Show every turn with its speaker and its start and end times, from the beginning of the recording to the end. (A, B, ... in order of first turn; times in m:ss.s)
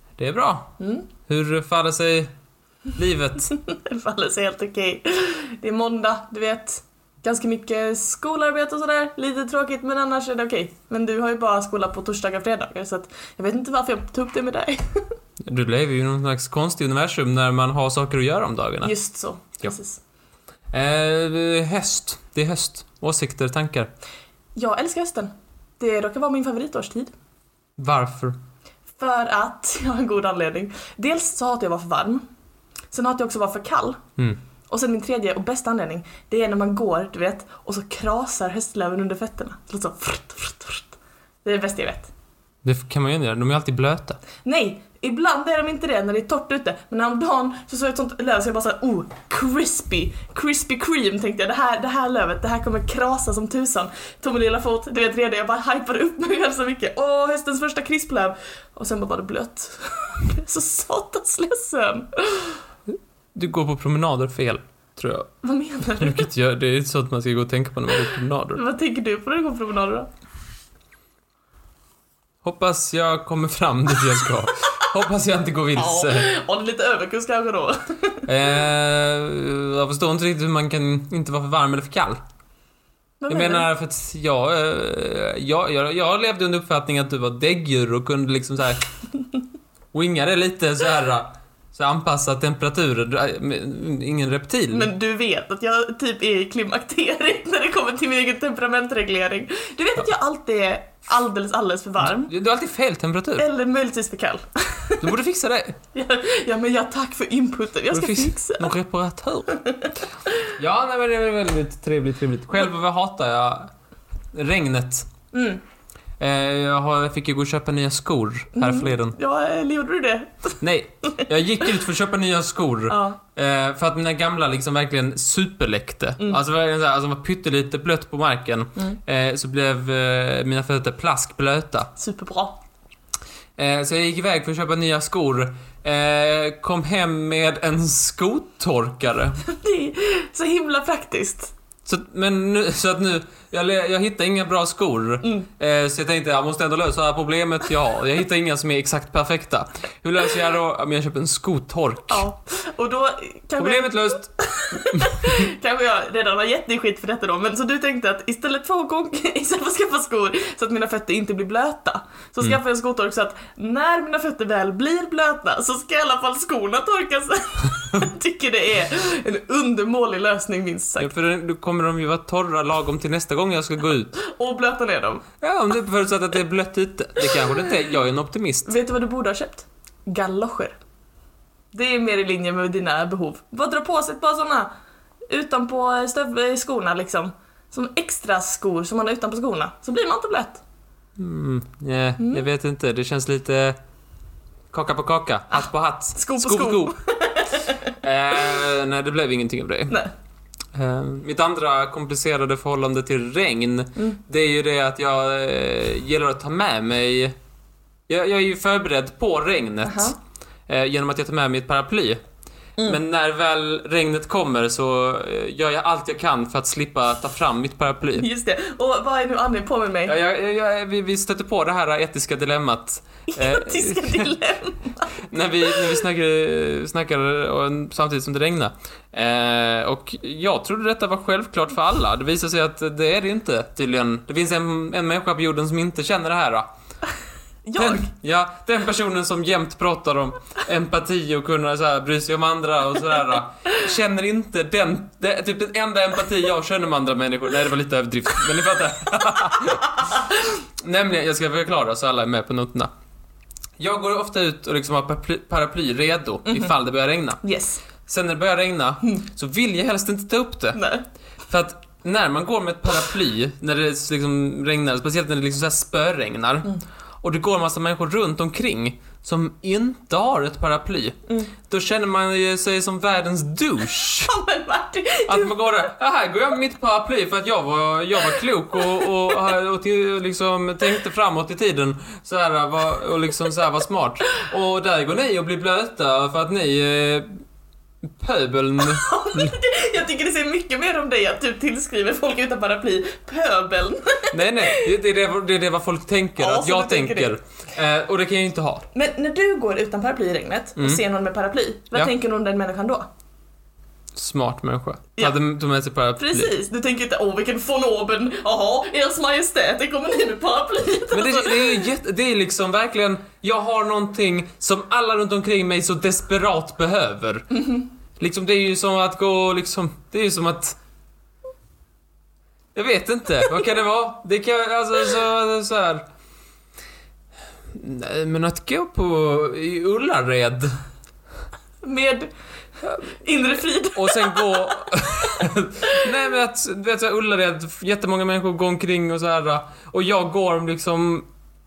0:00.2-0:00.7 A
0:00.8-0:01.1 B
0:01.2-0:02.3 A
0:02.9-0:03.5 A
0:03.5-0:15.0 B
0:15.5-0:18.9 A
0:18.8-0:20.0 B
0:20.7-0:23.9 A
0:24.6-0:27.1 B
0:27.8-0:28.4 A
0:29.0-0:32.2 B
0:32.9-0:34.0 B
0:34.7-0:42.1 B
0:42.6-0:44.2 A
0:44.4-1:02.6 B
1:03.3-1:05.3 A
1:05.4-1:06.3 B
1:06.0-1:08.6 A
1:08.6-1:10.1 B
1:12.4-1:16.3 A
1:15.8-1:18.3 B
1:18.3-1:22.2 A
1:23.2-1:23.7 B
1:23.3-1:28.8 A
1:29.9-1:34.9 A
1:34.7-1:42.3 B
1:42.0-1:43.5 A
1:43.4-1:45.1 B
1:45.0-1:45.8 A
1:45.9-1:48.7 B
1:47.9-1:49.5 A
1:49.5-1:49.9 B
1:50.6-1:53.7 A
1:54.3-1:55.1 A
1:55.3-1:55.6 B
1:56.2-1:59.2 A
1:58.6-2:01.3 B
2:00.6-2:11.9 A
2:02.9-2:03.2 B
2:12.0-2:12.6 B
2:13.6-2:19.4 A
2:19.4-2:21.5 B
2:21.8-2:32.2 A
2:25.2-2:25.5 B
2:32.1-2:51.1 B
2:33.6-2:35.1 A
2:51.0-2:54.2 A
2:54.2-2:55.2 B
2:55.4-2:58.8 A
2:58.6-3:00.7 B
3:01.7-3:04.7 B
3:05.3-3:10.6 B
3:11.2-3:13.8 A
3:14.7-3:16.9 A
3:15.5-3:17.8 B
3:18.0-3:20.0 A
3:20.7-3:27.3 A
3:28.1-3:30.1 A
3:29.8-3:30.1 B
3:30.7-3:32.2 A
3:32.8-3:38.3 A
3:38.2-3:40.2 B
3:40.0-3:44.3 A
3:43.3-3:45.1 B
3:45.2-3:56.7 A
3:57.6-3:58.1 B
3:57.8-4:12.9 A
4:13.8-4:17.4 A
4:16.5-4:16.7 B
4:17.4-4:17.8 B
4:18.0-4:20.8 A
4:20.7-4:21.0 B
4:21.5-4:34.3 A
4:34.3-4:35.9 B
4:35.3-4:47.3 A
4:48.1-4:49.5 A
4:48.8-4:54.9 B
4:54.3-4:58.8 A
4:56.4-4:57.4 B
4:58.9-5:03.1 B
5:00.8-5:01.0 A
5:04.1-5:06.5 A
5:06.2-5:11.9 B
5:11.1-5:20.8 A
5:22.7-5:26.0 A
5:27.7-5:30.7 A
5:31.8-5:32.3 B
5:32.8-5:34.7 B
5:33.9-5:41.3 A